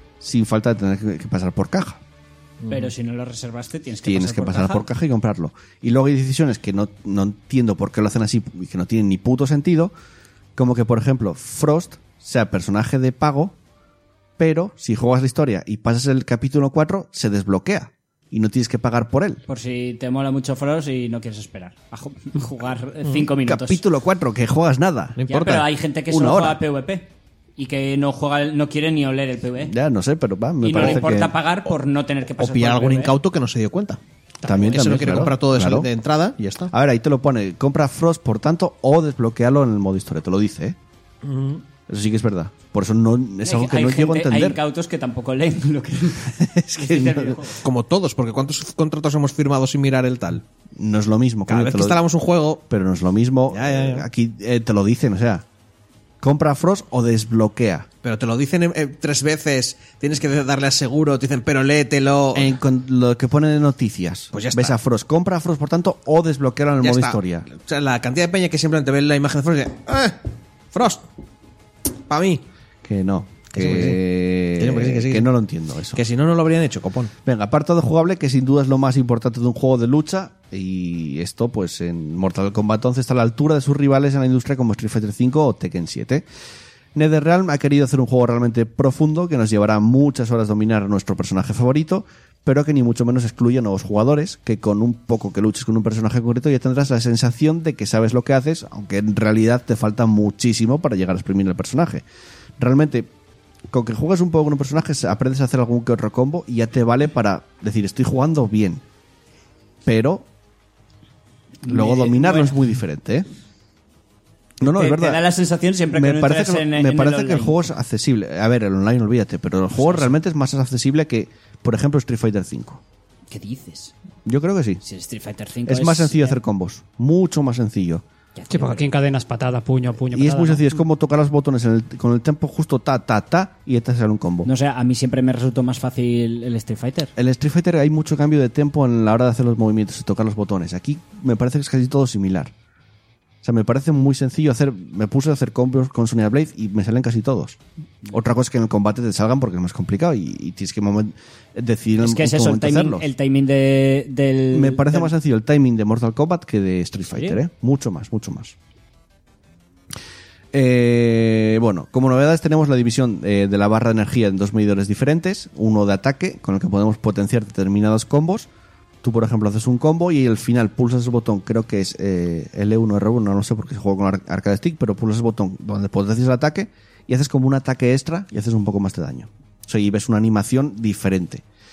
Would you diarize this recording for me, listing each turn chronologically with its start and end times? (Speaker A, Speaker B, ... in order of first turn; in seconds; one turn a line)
Speaker A: 0.2-2.0
Speaker B: 2.6-2.9
Speaker C: 2.7-4.9
Speaker A: 4.0-9.9
Speaker A: 10.6-13.6
Speaker A: 14.4-19.4
Speaker C: 19.5-23.8
Speaker A: 23.4-25.6
Speaker B: 25.2-25.7
Speaker C: 25.3-29.7
Speaker A: 26.1-26.6
Speaker A: 29.6-31.4
Speaker C: 30.6-33.1
Speaker B: 32.4-36.7
Speaker A: 34.4-35.9
Speaker A: 36.7-40.8
Speaker B: 41.2-41.6
Speaker A: 41.9-44.6
Speaker C: 43.4-47.6
Speaker A: 46.4-47.4
Speaker B: 47.6-50.4
Speaker A: 50.8-52.0
Speaker B: 51.5-52.6
Speaker A: 52.7-55.4
Speaker B: 53.5-54.0
Speaker A: 56.2-57.9
Speaker B: 58.0-62.5
Speaker A: 62.3-67.5
Speaker B: 64.3-64.8
Speaker B: 66.8-71.1
Speaker B: 72.1-72.4
Speaker A: 72.8-76.0
Speaker B: 73.5-74.0
Speaker B: 74.5-75.3
Speaker B: 75.9-77.1
Speaker A: 77.2-86.2
Speaker A: 86.9-102.0
Speaker A: 102.6-103.1
Speaker A: 103.7-108.8
Speaker A: 109.8-110.3
Speaker C: 111.6-112.6
Speaker A: 111.6-113.2
Speaker A: 114.6-115.2
Speaker C: 114.6-117.6
Speaker A: 115.9-122.8
Speaker C: 119.7-120.2
Speaker C: 123.3-123.9
Speaker A: 124.2-124.8
Speaker C: 124.8-126.4
Speaker A: 125.6-128.0
Speaker C: 128.3-128.8
Speaker D: 128.5-130.6
Speaker A: 130.1-134.5
Speaker C: 134.4-137.1
Speaker A: 137.2-142.5
Speaker A: 143.4-147.6
Speaker A: 148.1-153.1
Speaker C: 152.0-155.1
Speaker A: 154.5-158.5
Speaker C: 157.1-157.4
Speaker A: 160.5-168.5
Speaker A: 169.0-181.4